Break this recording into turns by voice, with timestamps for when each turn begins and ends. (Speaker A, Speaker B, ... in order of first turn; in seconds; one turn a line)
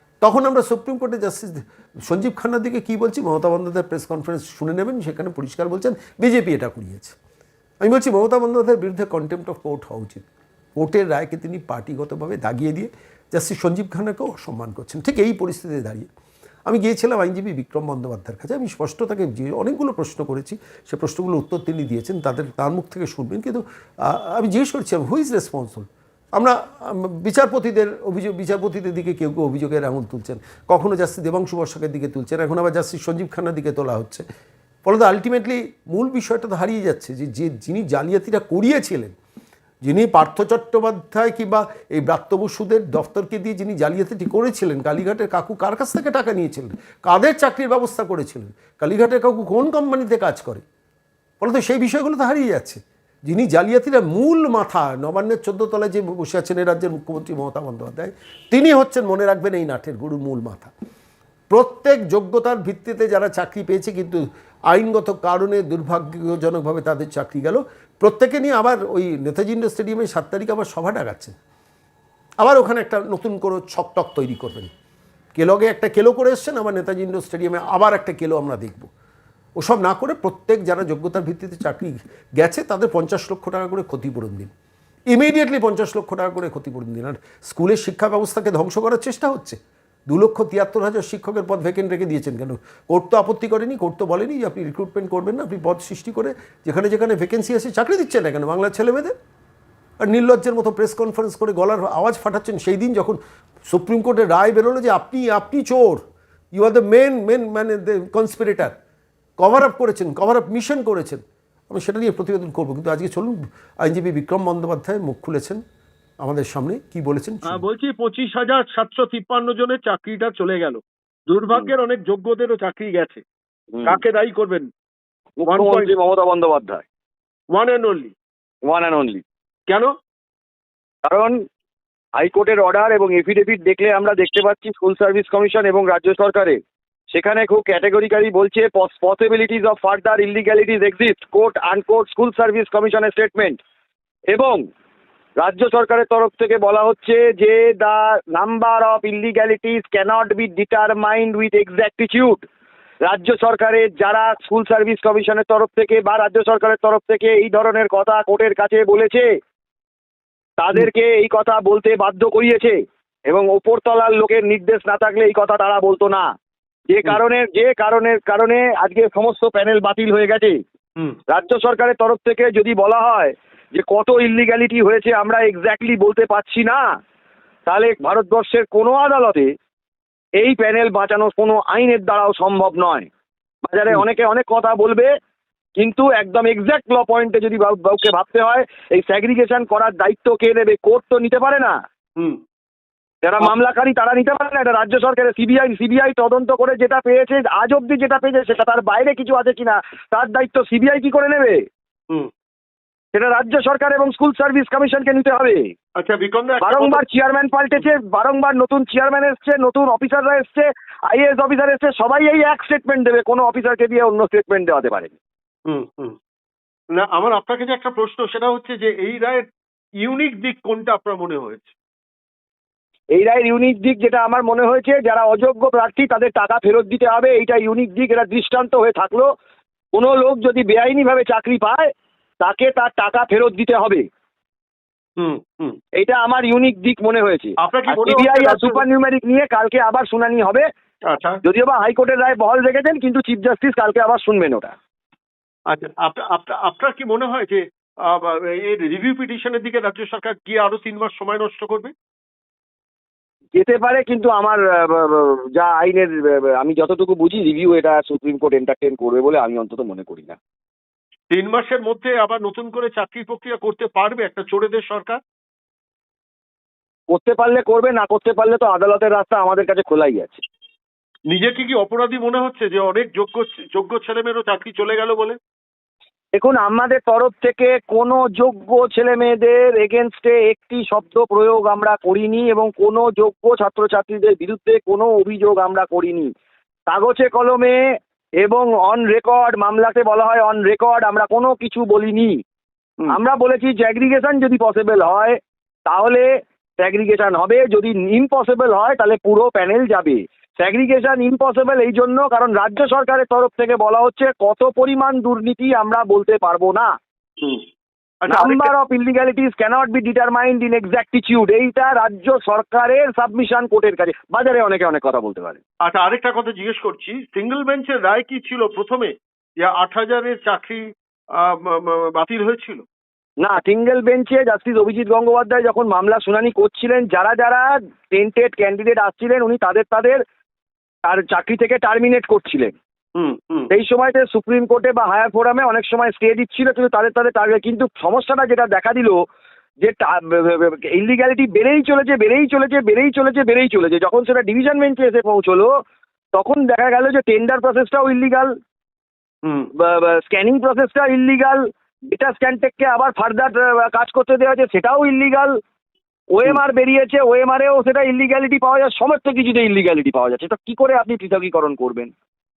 Speaker A: 0.2-7.2
Speaker A: 7.8-16.1
Speaker A: 16.6-34.2
Speaker A: 34.8-39.1
Speaker A: 39.8-50.6
Speaker A: 51.4-60.7
Speaker A: 61.5-71.3
Speaker A: 72.4-74.7
Speaker A: 75.3-78.9
Speaker A: 79.6-84.5
Speaker A: 85.1-99.1
Speaker A: 100.0-108.7
Speaker A: 109.4-115.6
Speaker A: 116.2-117.6
Speaker B: 117.5-123.2
Speaker C: 123.7-124.0
Speaker B: 123.8-124.7
Speaker C: 125.4-126.8
Speaker B: 125.5-125.9
Speaker B: 127.5-128.1
Speaker C: 128.7-129.2
Speaker C: 131.1-131.3
Speaker C: 132.2-136.6
Speaker C: 137.1-143.6
Speaker C: 144.3-144.6
Speaker C: 145.4-152.4
Speaker C: 153.1-159.2
Speaker C: 160.6-162.7
Speaker C: 163.3-166.2
Speaker C: 166.9-170.6
Speaker C: 171.3-176.8
Speaker C: 177.7-179.5
Speaker C: 180.4-183.1
Speaker C: 183.6-185.1
Speaker C: 185.8-191.7
Speaker C: 193.2-201.6
Speaker C: 203.1-205.6
Speaker B: 205.9-207.0
Speaker C: 206.6-215.1
Speaker B: 215.7-216.1
Speaker B: 216.9-219.4
Speaker B: 220.0-221.7
Speaker C: 223.1-229.3
Speaker C: 229.9-231.8
Speaker C: 232.4-234.0
Speaker B: 235.2-235.8
Speaker C: 236.0-240.7
Speaker B: 237.6-238.8
Speaker B: 241.1-241.4
Speaker C: 241.4-244.7
Speaker B: 245.7-251.9
Speaker C: 253.5-260.4
Speaker B: 261.3-265.2
Speaker C: 267.1-270.4
Speaker B: 271.3-275.4
Speaker C: 276.4-286.3
Speaker C: 286.9-287.8
Speaker C: 288.4-292.3
Speaker C: 293.1-295.3
Speaker C: 295.9-296.2
Speaker C: 296.8-306.9
Speaker B: 308.2-308.7
Speaker C: 308.3-315.6
Speaker B: 315.8-322.8
Speaker C: 323.4-330.2
Speaker C: 331.0-332.7
Speaker B: 333.1-333.7
Speaker C: 333.7-339.2
Speaker C: 339.8-345.7
Speaker C: 346.3-348.5
Speaker B: 349.4-349.7
Speaker C: 349.8-355.5
Speaker C: 356.4-362.1